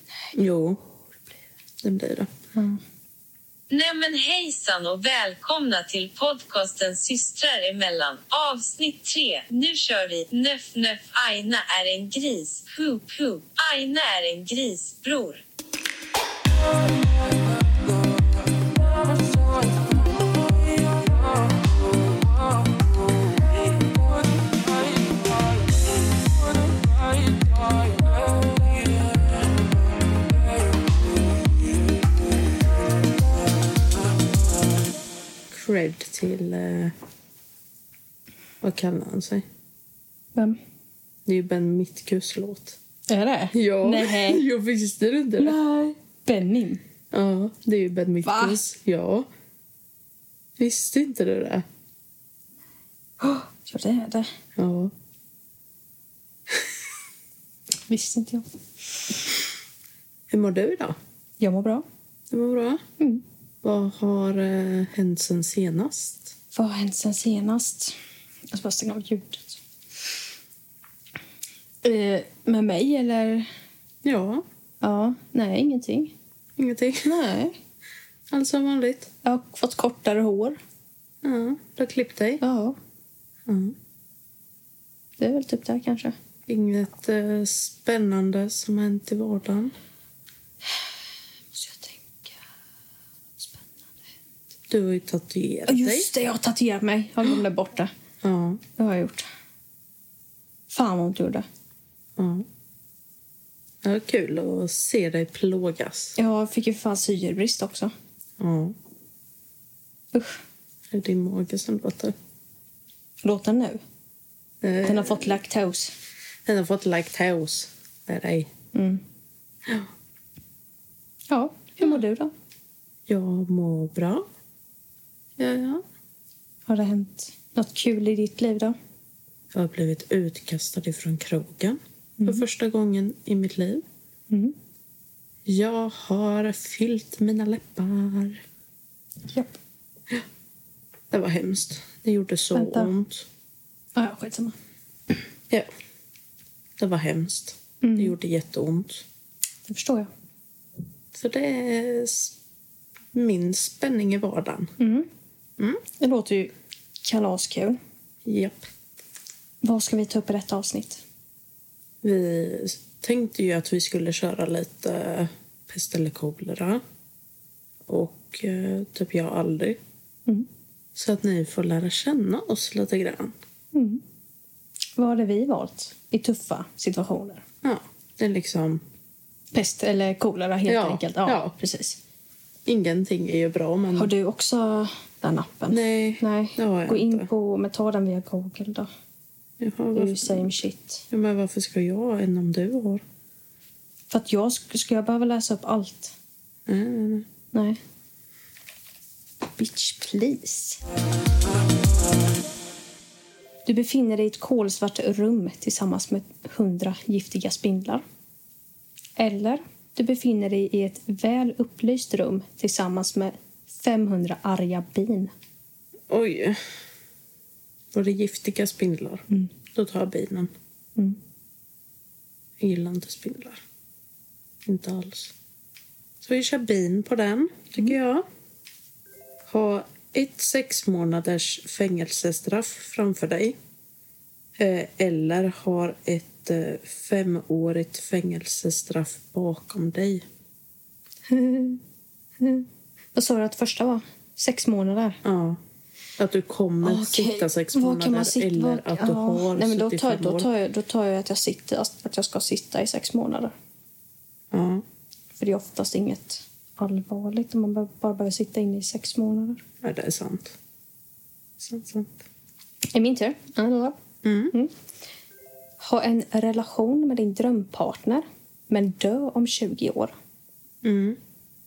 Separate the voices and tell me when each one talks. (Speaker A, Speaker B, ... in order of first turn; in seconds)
Speaker A: 0.3-0.8, 1.8-2.3, 35.5-37.0, 38.6-39.4, 41.2-42.8, 43.5-45.6, 47.1-49.3, 50.6-51.6, 54.5-54.9, 60.3-61.0, 62.3-62.8, 63.6-66.3, 74.0-74.4, 76.6-77.1, 78.3-79.1, 81.2-82.4, 83.5-83.8, 86.5-89.7, 94.7-96.1, 98.2-98.6, 102.2-102.5, 103.8-106.2, 108.4-108.8, 110.9-112.1, 114.6-115.4, 116.5-118.5, 119.6-119.9, 123.1-124.3, 125.4-125.8, 129.5-133.8, 135.4-138.4, 141.1-143.3, 146.8-149.0, 151.1-152.3, 153.1-154.7, 158.2-158.6, 162.0-166.8, 167.9-169.8, 170.9-173.3, 177.6-178.8, 180.7-181.5, 182.7-184.1, 185.7-187.3, 189.6-190.5, 191.1-193.0, 196.7-197.3, 216.1-216.6, 217.9-220.5, 222.6-223.6, 224.6-225.3, 226.2-228.2, 229.5-233.6, 234.6-240.2, 245.2-245.6, 246.2-250.5, 254.5-254.8, 259.8-260.6, 261.6-262.2, 264.2-264.5, 270.8-271.2
Speaker B: 3.7-15.4, 19.0-19.8
Speaker C: 43.1-44.4, 45.4-46.8, 48.2-48.6, 53.2-54.3, 57.9-58.4, 61.4-61.8, 66.5-68.0, 68.5-69.6, 71.8-73.5, 74.8-76.1, 77.0-77.5, 79.2-80.6, 82.4-82.8, 85.2-86.1, 91.5-92.4, 93.4-93.9, 95.7-97.9, 98.8-99.3, 100.7-101.5, 106.2-107.9, 110.1-110.4, 113.2-113.8, 114.8-115.9, 118.7-119.0, 121.3-122.3, 126.7-128.8, 132.2-132.4, 134.3-134.5, 142.5-142.9, 143.9-144.6, 147.8-148.2, 149.7-150.1, 154.8-155.1, 156.0-157.8, 159.6-161.0, 173.7-174.0, 174.9-177.4, 179.5-182.0, 183.9-188.9, 189.9-191.0, 194.1-196.1, 197.5-197.8, 199.6-200.8, 203.7-208.0, 209.2-215.3, 241.3-241.8, 242.4-245.2, 246.8-253.5, 255.4-259.6, 262.9-263.9, 265.8-270.1